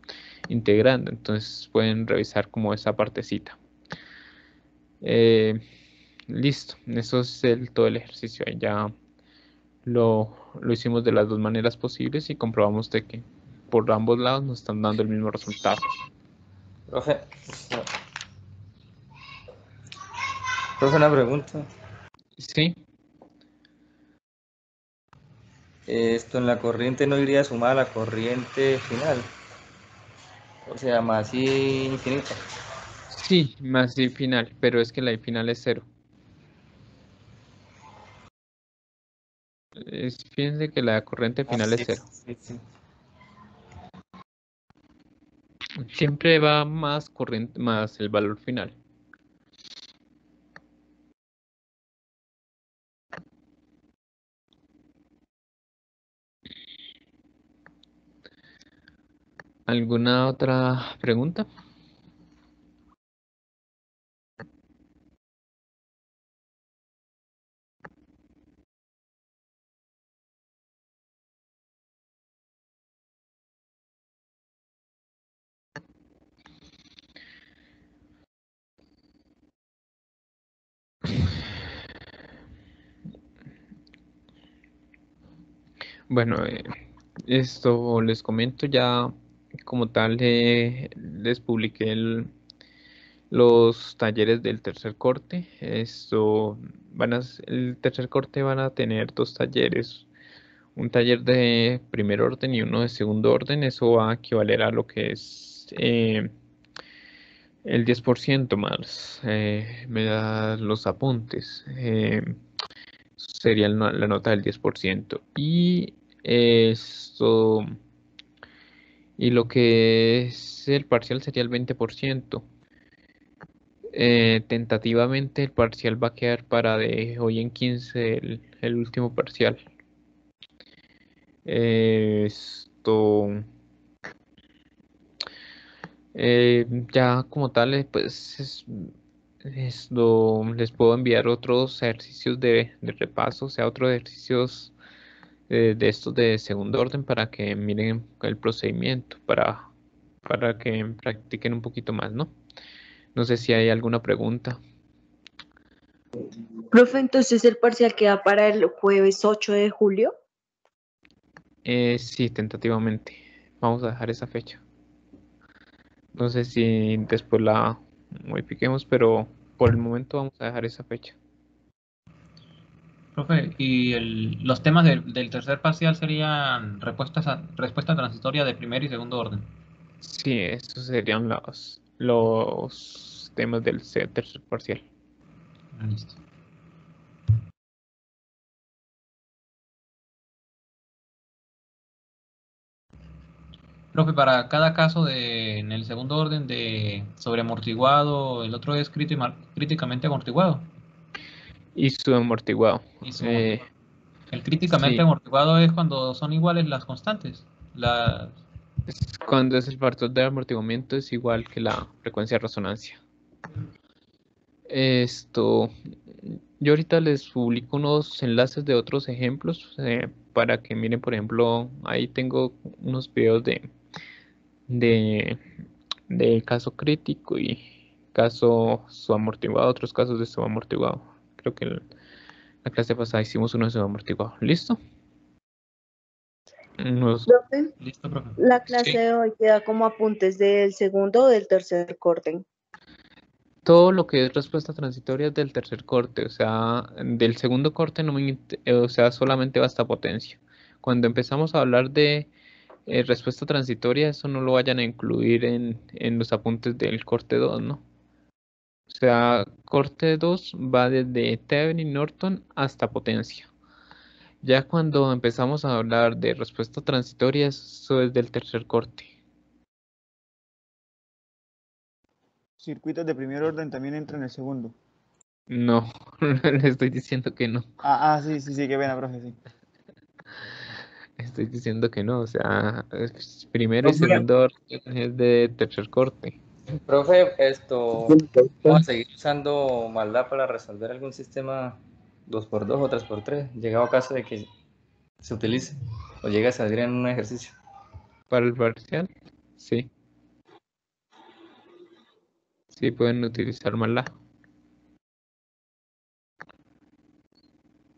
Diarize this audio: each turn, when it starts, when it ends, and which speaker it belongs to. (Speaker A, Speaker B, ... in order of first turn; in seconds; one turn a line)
Speaker A: 0.5-3.6
Speaker A: 5.0-5.6
Speaker A: 6.3-8.9
Speaker A: 9.8-15.9
Speaker B: 16.9-17.9
Speaker B: 20.8-21.7
Speaker A: 22.4-22.8
Speaker B: 25.9-29.3
Speaker B: 30.7-32.4
Speaker A: 33.1-35.9
Speaker A: 39.8-42.0
Speaker B: 42.3-42.6
Speaker A: 45.8-48.7
Speaker A: 59.7-61.5
Speaker A: 86.1-89.1
Speaker A: 89.6-92.3
Speaker A: 93.3-100.1
Speaker A: 100.8-106.3
Speaker A: 107.6-112.4
Speaker A: 113.2-117.7
Speaker A: 119.2-122.5
Speaker A: 123.9-129.6
Speaker A: 131.4-133.4
Speaker A: 136.1-138.9
Speaker A: 139.4-144.7
Speaker A: 145.5-149.7
Speaker A: 150.2-152.3
Speaker A: 153.1-154.6
Speaker C: 156.7-160.1
Speaker A: 161.6-164.6
Speaker A: 166.2-171.2
Speaker D: 173.1-179.5
Speaker A: 180.0-184.8
Speaker D: 185.7-186.2
Speaker D: 193.9-200.7
Speaker A: 201.7-203.6
Speaker D: 203.0-203.6
Speaker D: 204.3-208.4
Speaker A: 204.8-205.1
Speaker A: 208.9-213.0
Speaker A: 214.7-215.7
Speaker A: 216.2-223.7
Speaker A: 224.7-225.4
Speaker A: 226.1-227.6
Speaker A: 228.1-231.8
Speaker A: 232.6-234.8
Speaker A: 236.8-237.3
Speaker C: 237.3-237.7
Speaker D: 237.8-238.8
Speaker C: 238.4-242.4
Speaker A: 243.6-252.3
Speaker A: 252.9-257.8
Speaker A: 258.9-263.5
Speaker A: 264.4-269.1
Speaker E: 272.6-274.8
Speaker A: 275.5-277.7
Speaker E: 277.8-279.4
Speaker A: 281.2-286.4
Speaker B: 286.8-294.5
Speaker B: 295.2-297.6
Speaker A: 298.3-299.9
Speaker A: 302.7-304.1